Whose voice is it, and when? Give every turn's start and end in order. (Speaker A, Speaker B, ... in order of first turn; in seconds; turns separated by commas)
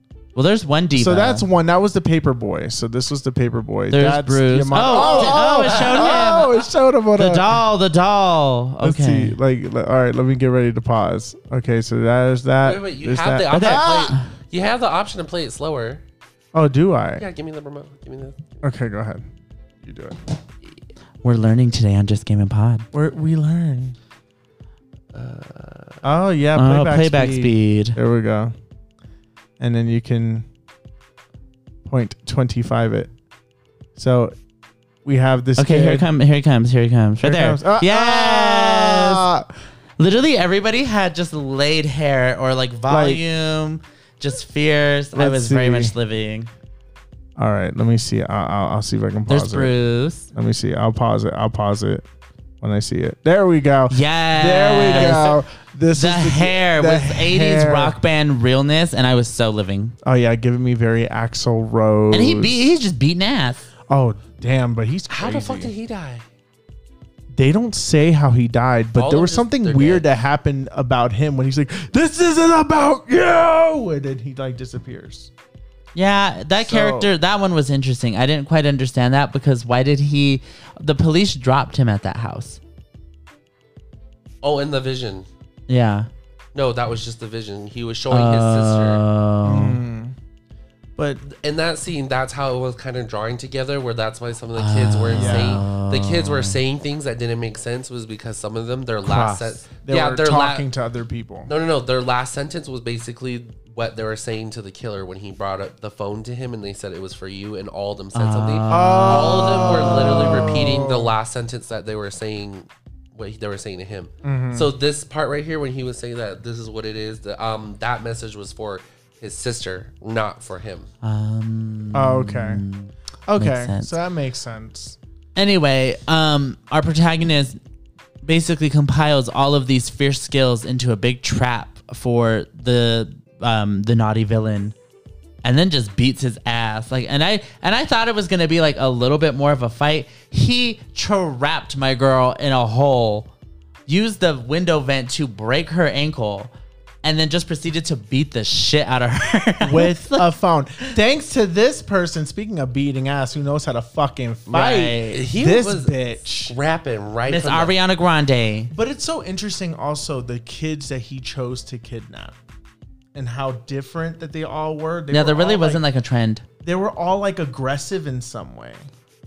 Speaker A: 0.3-1.4, Speaker B: 1.0-7.6, Speaker A: 3.9-6.5, Speaker C: 4.8-6.5, Speaker A: 7.2-9.4, Speaker B: 8.8-14.2, Speaker C: 12.6-16.0, Speaker A: 13.5-14.3, Speaker B: 16.5-17.3, Speaker C: 17.2-18.6, Speaker B: 18.6-19.2, Speaker B: 19.8-20.2, Speaker A: 21.2-22.9, Speaker B: 22.9-24.0, Speaker C: 25.1-26.0, Speaker B: 26.0-28.5, Speaker A: 26.6-28.0, Speaker B: 29.6-30.5, Speaker B: 31.9-33.1, Speaker B: 34.0-34.4, Speaker B: 35.0-36.1, Speaker A: 35.6-39.3, Speaker B: 37.2-39.5, Speaker A: 40.0-46.5, Speaker B: 42.9-43.2, Speaker B: 45.1-46.0, Speaker B: 47.4-49.8, Speaker A: 49.3-50.3, Speaker B: 50.3-52.0, Speaker B: 52.6-58.0, Speaker A: 53.9-55.4, Speaker A: 55.9-60.0, Speaker B: 60.0-62.8, Speaker A: 62.1-63.6, Speaker B: 63.9-65.7, Speaker C: 65.1-66.2, Speaker B: 67.3-75.3, Speaker C: 69.0-70.1, Speaker A: 76.0-82.6, Speaker B: 76.6-77.1, Speaker C: 84.4-85.3, Speaker A: 85.7-86.1, Speaker C: 86.5-89.0, Speaker A: 88.1-89.8, Speaker B: 89.5-90.2, Speaker B: 91.0-91.2, Speaker C: 91.2-100.7, Speaker A: 94.6-96.6, Speaker B: 95.1-95.7, Speaker A: 99.0-99.6, Speaker B: 99.7-101.5, Speaker C: 101.5-120.9, Speaker A: 108.1-109.8, Speaker B: 108.7-111.2, Speaker B: 114.2-114.7, Speaker A: 121.0-123.9, Speaker B: 121.9-122.6, Speaker B: 123.3-125.0, Speaker A: 125.4-127.6, Speaker A: 128.2-134.8, Speaker A: 135.4-143.3, Speaker A: 143.9-150.3, Speaker B: 149.6-156.6, Speaker A: 154.5-155.2, Speaker C: 155.1-157.7, Speaker A: 157.3-158.7, Speaker B: 158.7-162.4, Speaker B: 163.1-165.8, Speaker A: 165.1-166.4, Speaker B: 166.6-168.9